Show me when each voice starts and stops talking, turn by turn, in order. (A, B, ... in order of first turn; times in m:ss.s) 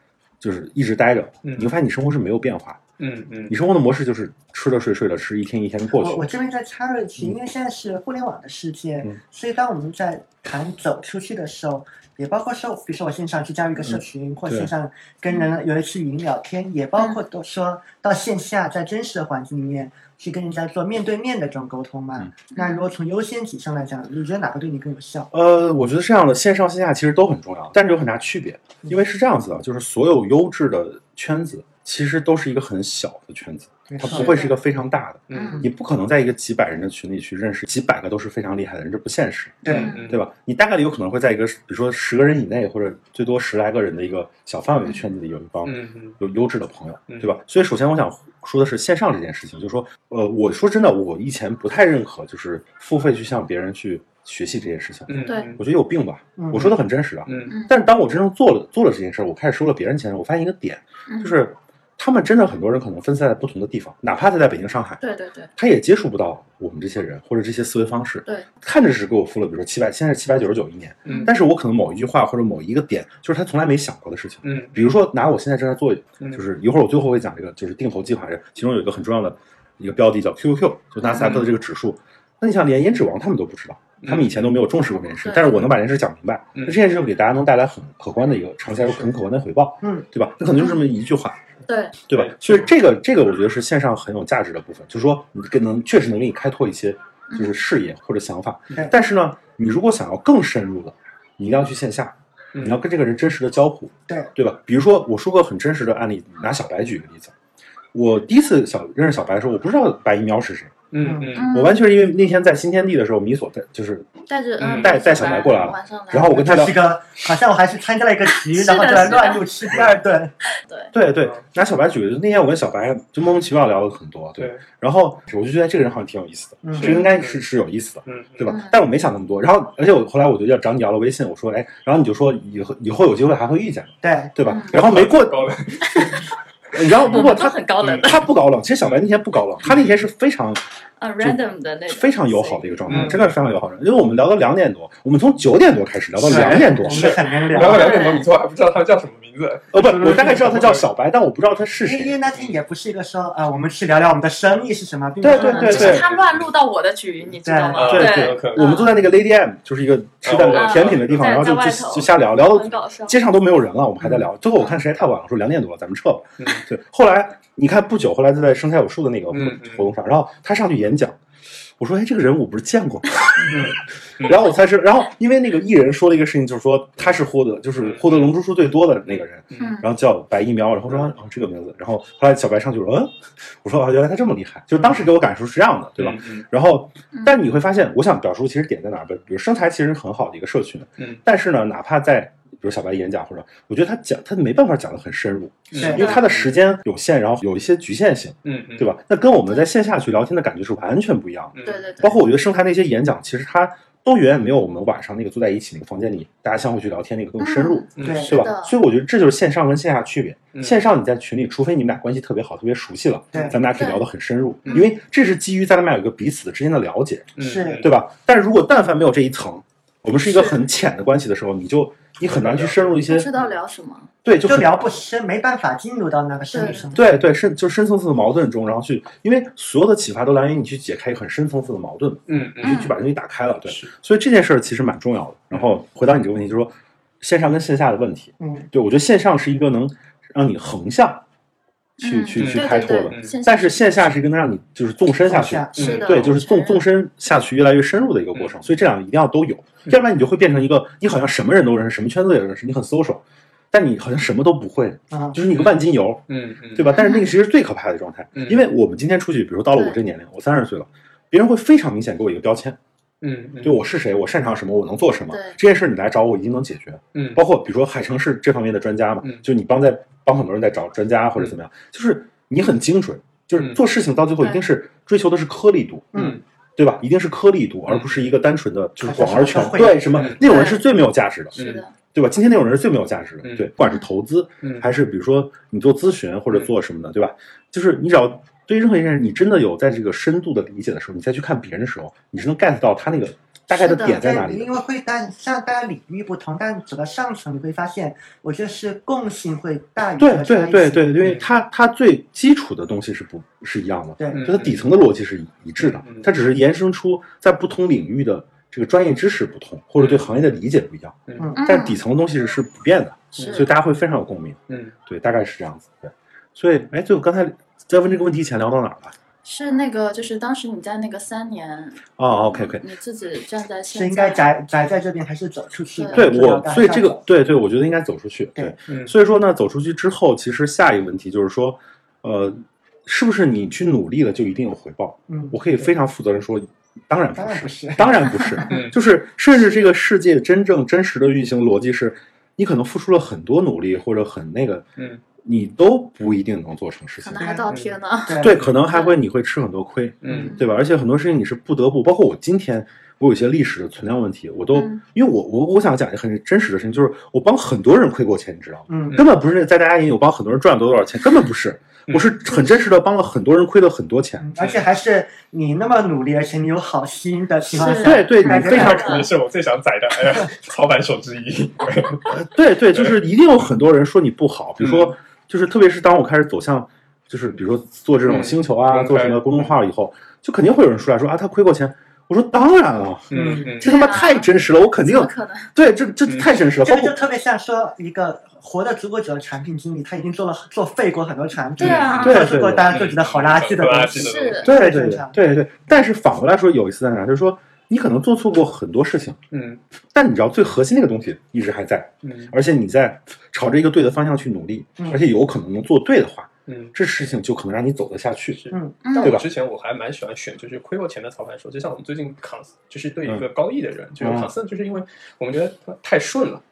0:00.4-0:02.8 A
0:01.4-0:01.7 B
0:03.0-0:03.6 B
0:03.5-0:06.3 A
0:05.9-0:25.3 C
0:13.8-0:14.7 A
0:22.5-0:22.9 D
0:25.3-1:05.0 A
0:33.9-0:34.4 C
0:34.1-0:34.4 B
0:34.2-0:34.5 D
0:35.3-0:35.6 B
0:35.3-0:35.7 D
0:39.6-0:40.0 C
0:39.6-0:40.2 B
0:39.7-0:40.2 D
0:45.6-0:46.2 B
0:47.1-0:47.3 B
0:55.1-0:55.6 B
0:55.2-0:55.5 D
0:56.4-0:56.8 C
0:57.2-0:57.6 B
0:57.4-0:57.8 D
1:01.1-1:01.4 D
1:05.0-1:05.5 D
1:05.6-1:31.4 A
1:11.0-1:11.3 B
1:11.0-1:11.3 D
1:14.4-1:14.9 B
1:21.0-1:21.5 D
1:24.0-1:24.6 B
1:25.2-1:25.7 D
1:26.5-1:26.8 B
1:30.5-1:30.8 D
1:31.6-1:31.9 D
1:32.1-1:47.3 A
1:32.1-1:32.7 B
1:37.3-1:37.5 D
1:42.5-1:42.8 B
1:47.9-1:50.7 A
1:50.9-1:51.7 B
1:51.0-1:51.4 C
1:51.3-1:51.8 D
1:51.5-1:54.1 A
1:54.3-1:56.5 D
1:54.6-1:55.6 B
1:54.6-1:56.9 A
1:56.2-2:00.3 C
1:58.4-1:59.8 D
2:00.6-2:00.9 D
2:00.9-2:15.5 A
2:04.4-2:04.6 B
2:06.6-2:07.0 C
2:06.7-2:07.4 B
2:06.8-2:07.1 D
2:08.0-2:08.5 B
2:08.4-2:08.8 D
2:14.0-2:14.3 C
2:14.4-2:14.8 D
2:14.7-2:16.3 B
2:15.8-2:16.2 D
2:16.7-2:20.6 A
2:16.8-2:18.3 D
2:17.8-2:18.1 B
2:19.6-2:19.9 B
2:21.0-2:23.1 D
2:21.2-2:27.2 A
2:22.9-2:23.4 B
2:26.2-2:28.1 C
2:26.3-2:30.9 B
2:27.6-2:28.3 D
2:29.7-2:32.2 A
2:30.0-2:30.3 C
2:31.8-2:36.0 C
2:35.2-2:36.1 A
2:35.3-2:38.9 D
2:35.3-2:36.4 B
2:37.4-2:38.0 C
2:37.7-2:38.9 B
2:37.8-2:51.2 A
2:40.2-2:41.6 B
2:40.4-2:43.2 D
2:49.3-2:49.9 B
2:51.8-3:43.3 A
2:53.5-2:54.4 B
2:57.8-2:58.3 B
2:59.1-2:59.8 B
2:59.6-2:59.9 D
3:04.8-3:05.1 B
3:06.0-3:06.4 B
3:07.1-3:07.4 D
3:15.7-3:16.5 B
3:15.7-3:16.2 C
3:15.8-3:16.2 D
3:18.4-3:19.0 B
3:21.5-3:21.9 B
3:21.6-3:22.2 D
3:27.4-3:28.8 D
3:28.0-3:28.4 B
3:28.0-3:28.4 C
3:30.5-3:30.8 B
3:33.3-3:33.6 C
3:33.7-3:34.0 D
3:34.7-3:34.9 D
3:37.4-3:37.9 B
3:37.4-3:37.9 C
3:40.3-3:40.6 D
3:42.2-3:43.5 B
3:43.0-3:44.1 D
3:44.2-3:44.8 A
3:44.4-3:47.1 C
3:46.5-3:46.9 D
3:46.9-4:01.2 A
3:52.3-3:52.9 B
3:52.6-3:52.9 D
3:53.6-3:53.9 B
3:58.4-3:58.7 C
4:02.0-4:03.9 D
4:02.0-4:16.2 A
4:02.3-4:03.4 B
4:05.2-4:06.0 C
4:05.7-4:06.4 B
4:05.7-4:06.9 D
4:15.1-4:15.4 C
4:15.5-4:17.0 B
4:16.7-4:22.8 A
4:16.8-4:17.3 D
4:18.3-4:18.6 B
4:23.2-4:23.8 B
4:23.6-4:36.2 A
4:25.3-4:25.6 D
4:27.1-4:27.4 B
4:34.4-4:34.6 D
4:36.1-4:36.4 C
4:36.1-4:36.4 B
4:36.8-4:41.6 A
4:37.9-4:38.3 B
4:39.0-4:40.3 C
4:40.1-4:40.4 B
4:40.4-4:40.8 D
4:41.5-4:41.9 D
4:41.5-4:41.8 B
4:42.1-4:54.7 A
4:43.4-4:43.7 B
4:43.8-4:44.0 D
4:44.6-4:44.9 B
4:53.7-4:54.2 D
4:54.0-5:01.2 C
5:00.2-5:19.2 A
5:01.2-5:01.5 B
5:04.2-5:04.5 C
5:04.3-5:04.8 B
5:05.8-5:06.3 B
5:10.0-5:10.2 B
5:11.3-5:11.6 B
5:11.4-5:11.6 C
5:11.5-5:12.0 D
5:13.3-5:13.7 D
5:13.4-5:13.7 B
5:14.7-5:14.9 B
5:19.4-5:24.4 D
5:22.2-5:22.8 A
5:23.9-5:27.2 C
5:26.0-5:26.3 D
5:26.1-5:44.8 A
5:28.9-5:29.1 B
5:35.3-5:35.5 C
5:37.4-5:38.6 C
5:38.7-5:39.0 B
5:45.0-5:45.2 B
5:45.4-5:47.6 A
5:47.2-5:49.2 D
5:47.4-5:47.7 C
5:47.7-5:48.0 B
5:48.2-5:48.6 C
5:48.4-6:04.5 A
5:50.2-5:50.5 B
5:50.3-5:50.7 D
5:54.7-5:55.0 D
5:58.9-5:59.2 C
6:02.1-6:02.3 B
6:04.4-6:09.2 C
6:04.6-6:04.8 B
6:07.7-6:09.3 D
6:08.0-6:09.3 A
6:08.5-6:12.4 B
6:12.3-6:27.2 A
6:14.8-6:15.1 B
6:18.2-6:19.8 B
6:23.3-6:24.1 B
6:23.3-6:23.8 C
6:23.8-6:25.7 D
6:26.8-6:35.4 C
6:31.8-6:32.6 D
6:31.8-6:34.8 B
6:32.2-6:33.1 A
6:34.1-6:34.7 D
6:34.6-6:39.4 A
6:39.5-6:39.8 B
6:40.1-6:48.6 A
6:42.2-6:42.5 B
6:46.7-6:46.9 B
6:48.5-6:56.6 B
6:48.7-6:49.0 C
6:49.0-6:49.4 D
6:49.2-6:49.5 A
6:54.2-6:54.5 A